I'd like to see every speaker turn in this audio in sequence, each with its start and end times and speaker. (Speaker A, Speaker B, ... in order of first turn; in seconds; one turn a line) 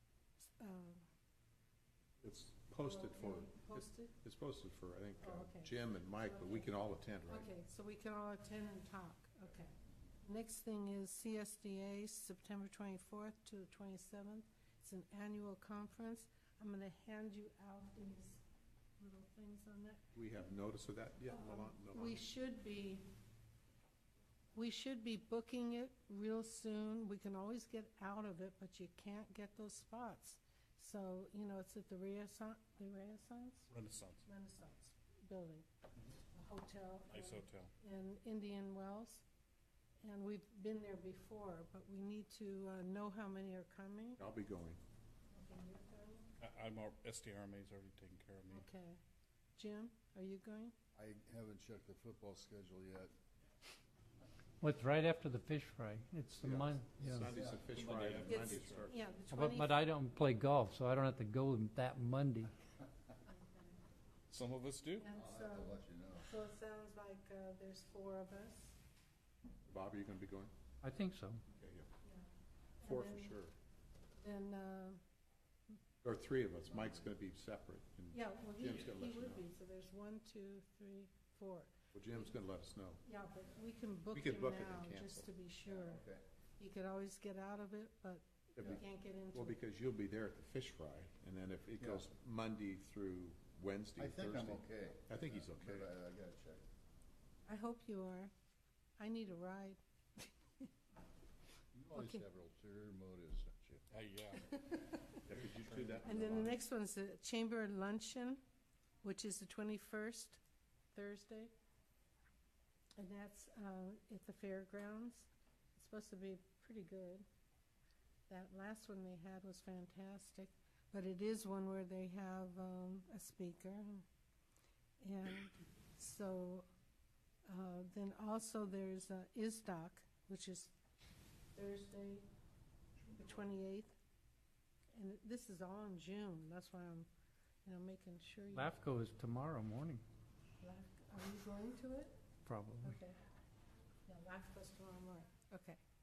Speaker A: 0.4-1.0
Speaker B: 2.2-7.5
Speaker A: 2.8-4.1
Speaker A: 5.2-6.7
Speaker A: 7.3-18.4
Speaker A: 19.0-20.0
Speaker B: 20.1-22.2
Speaker A: 21.3-23.0
Speaker A: 24.5-33.7
Speaker C: 33.7-34.2
Speaker A: 34.2-35.6
Speaker A: 36.3-39.2
Speaker C: 37.1-37.7
Speaker A: 40.0-44.2
Speaker B: 44.2-44.8
Speaker A: 45.3-46.2
Speaker C: 46.4-48.6
Speaker A: 48.5-49.0
Speaker A: 49.6-50.7
Speaker D: 51.0-53.1
Speaker E: 54.6-57.3
Speaker B: 56.4-58.9
Speaker C: 57.1-59.0
Speaker D: 57.3-57.7
Speaker A: 58.2-59.8
Speaker E: 59.3-62.5
Speaker A: 63.3-63.8
Speaker C: 64.3-65.0
Speaker A: 65.0-68.8
Speaker D: 65.1-66.3
Speaker B: 69.7-70.5
Speaker E: 70.8-71.4
Speaker B: 71.5-71.9
Speaker A: 72.8-73.3
Speaker B: 72.8-73.5
Speaker A: 74.2-75.0
Speaker B: 76.0-79.5
Speaker A: 78.1-82.3
Speaker B: 81.9-83.0
Speaker A: 83.0-86.0
Speaker B: 84.1-85.3
Speaker D: 85.7-86.2
Speaker A: 86.6-89.5
Speaker B: 88.5-88.8
Speaker B: 89.3-95.9
Speaker D: 91.8-92.0
Speaker D: 94.0-96.7
Speaker A: 97.5-98.3
Speaker A: 99.0-100.7
Speaker D: 101.7-103.8
Speaker A: 101.9-102.2
Speaker C: 103.9-104.5
Speaker A: 104.5-105.1
Speaker B: 105.2-106.5
Speaker A: 106.0-108.4
Speaker A: 109.0-110.4
Speaker A: 110.9-111.5
Speaker A: 113.0-117.2
Speaker A: 118.3-124.0
Speaker A: 125.0-126.7
Speaker A: 127.5-130.7
Speaker A: 131.5-132.2
Speaker A: 133.1-133.9
Speaker A: 134.9-137.1
Speaker A: 137.6-138.7
Speaker E: 138.5-140.0
Speaker A: 140.6-142.1
Speaker E: 142.5-142.9
Speaker A: 142.8-143.2
Speaker A: 144.1-145.8